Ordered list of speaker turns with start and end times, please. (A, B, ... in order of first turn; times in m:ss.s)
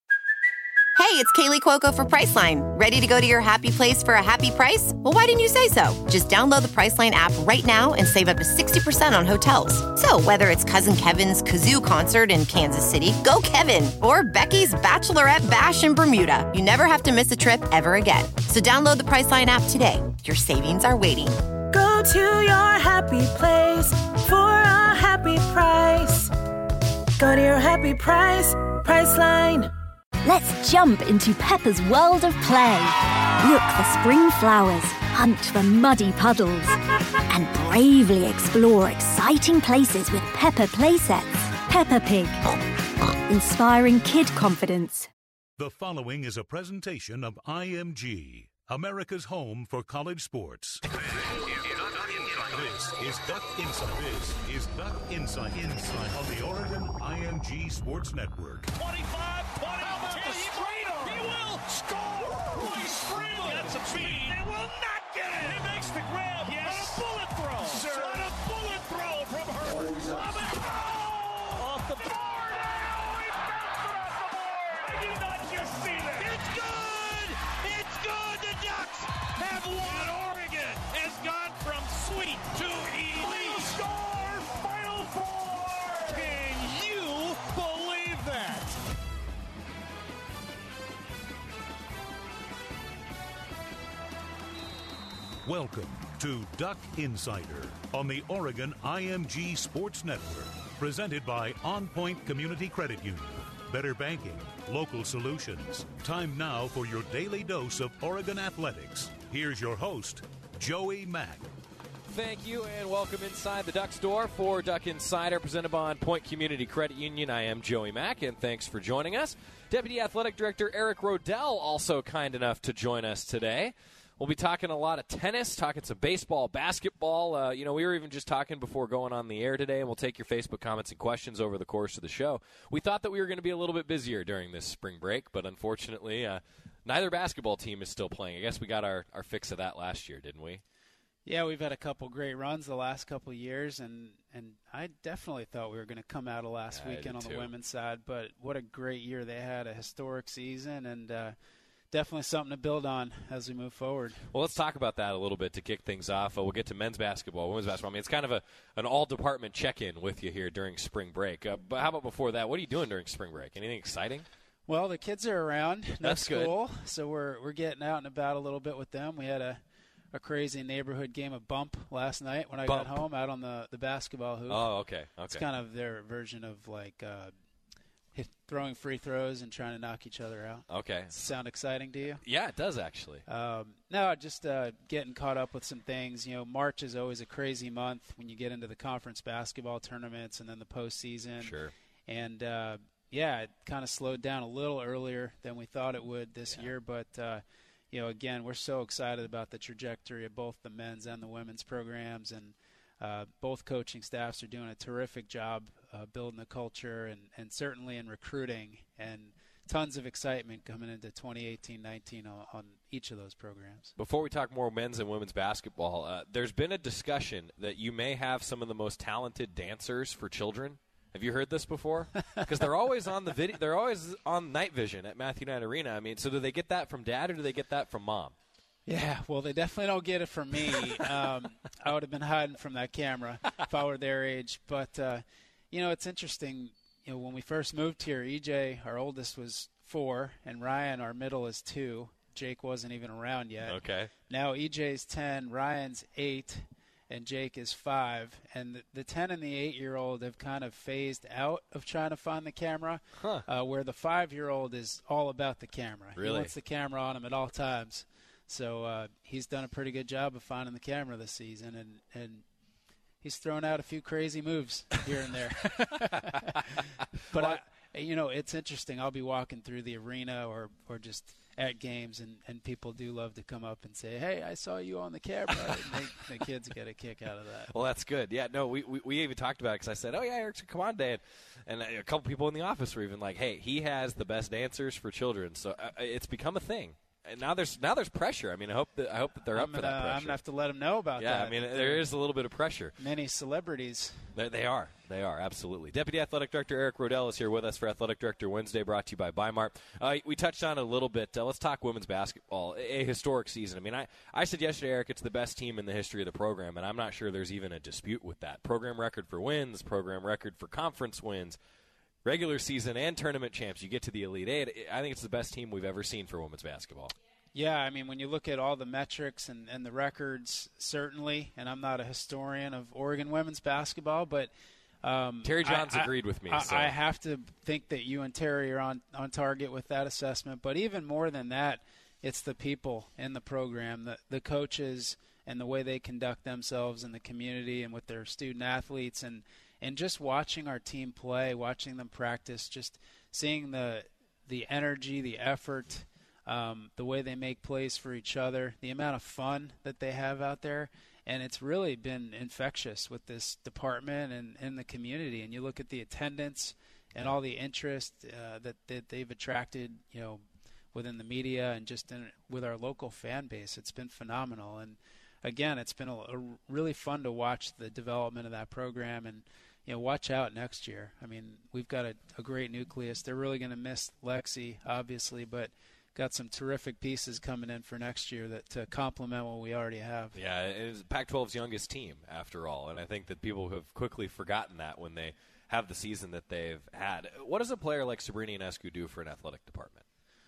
0:01.0-0:21.4 A
0:21.7-0:26.3 B
0:27.2-0:29.7 B
0:30.2-0:36.8 C
0:37.3-0:42.4 C
0:43.3-0:45.1 C
0:45.6-0:58.7 D
0:58.7-1:28.8 E
1:35.4-1:51.5 D
1:52.1-2:20.6 F
2:21.3-2:31.4 G
2:26.7-2:27.5 F
2:31.9-2:34.2 G
2:34.3-2:44.3 F
2:44.7-2:49.6 G
2:46.0-2:46.5 F
2:50.1-2:54.6 G
2:52.7-2:53.0 F
2:54.5-2:55.4 F
2:55.3-2:57.3 G
2:58.1-3:02.2 G
3:00.7-3:01.2 F
3:02.2-3:03.2 F
3:03.3-3:11.5 G
3:11.4-3:11.7 F
3:12.1-3:33.9 G
3:34.0-3:48.4 F
3:48.9-4:22.4 G
4:03.6-4:04.1 F
4:13.2-4:13.4 F
4:16.2-4:16.5 F
4:23.2-4:26.6 G
4:25.7-4:26.6 F
4:27.3-4:27.6 F
4:27.3-4:37.7 G
4:35.7-4:36.0 F
4:37.7-4:50.4 F
4:49.5-4:52.0 G
4:51.2-4:52.9 F
4:53.0-4:54.3 G
4:54.4-5:11.6 F
5:12.2-5:17.1 F
5:17.5-5:24.5 G
5:25.0-6:20.4 G
5:25.4-5:26.9 F
6:20.4-6:30.0 F